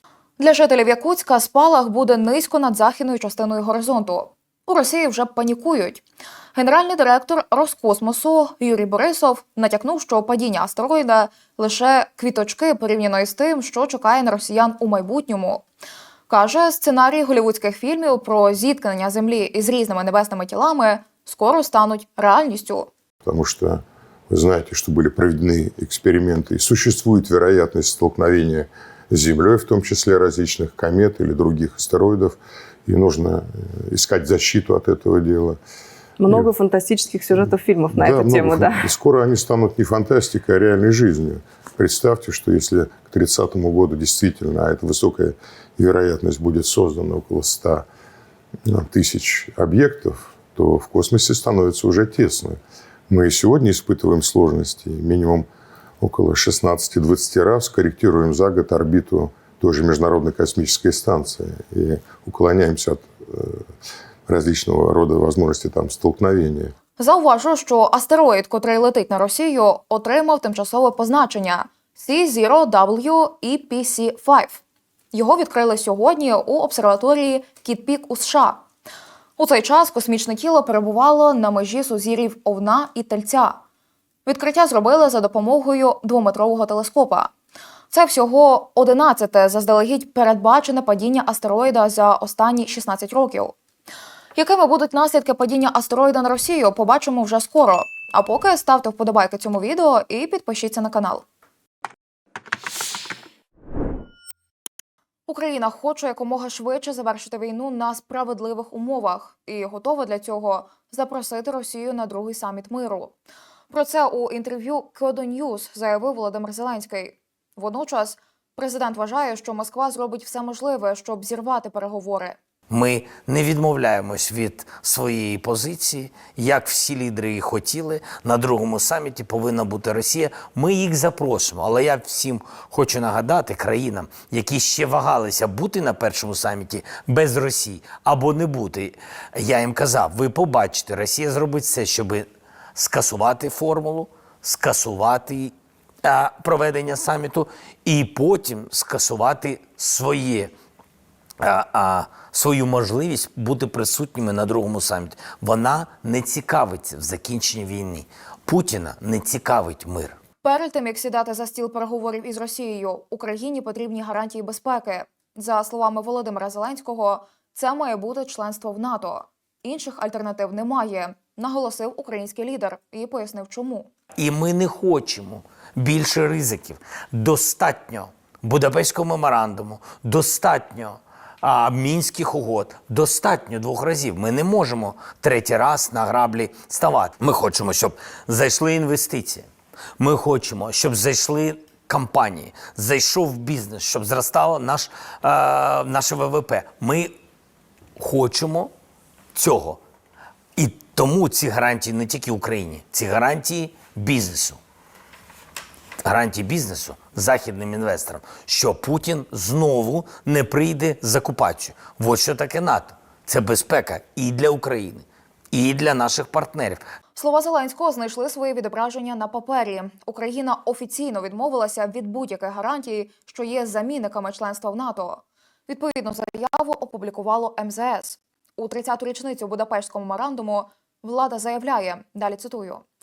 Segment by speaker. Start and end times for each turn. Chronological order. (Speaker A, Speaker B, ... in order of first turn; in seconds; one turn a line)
Speaker A: 0.4-6.0
Speaker A: 6.5-15.6
Speaker A: 16.3-22.9
Speaker B: 23.2-35.6
Speaker C: 36.2-38.9
Speaker B: 37.4-47.9
Speaker B: 48.7-52.6
Speaker B: 53.1-55.5
Speaker B: 56.0-63.6
Speaker B: 64.3-66.7
Speaker A: 67.0-74.6
Speaker A: 75.1-78.6
Speaker A: 79.4-83.6
Speaker A: 84.2-87.3
Speaker A: 87.9-93.5
Speaker A: 94.4-101.2
Speaker A: 105.3-113.1
Speaker A: 113.7-122.4
Speaker D: 122.7-145.5
Speaker D: 146.0-150.5
Speaker D: 151.4-160.2
Speaker A: 160.4-173.9
Speaker D: 174.2-189.5
Speaker D: 190.0-197.1
Speaker D: 198.0-198.7
Speaker D: 199.3-199.8
Speaker D: 200.6-204.6
Speaker D: 206.1-216.8
Speaker A: 217.2-232.8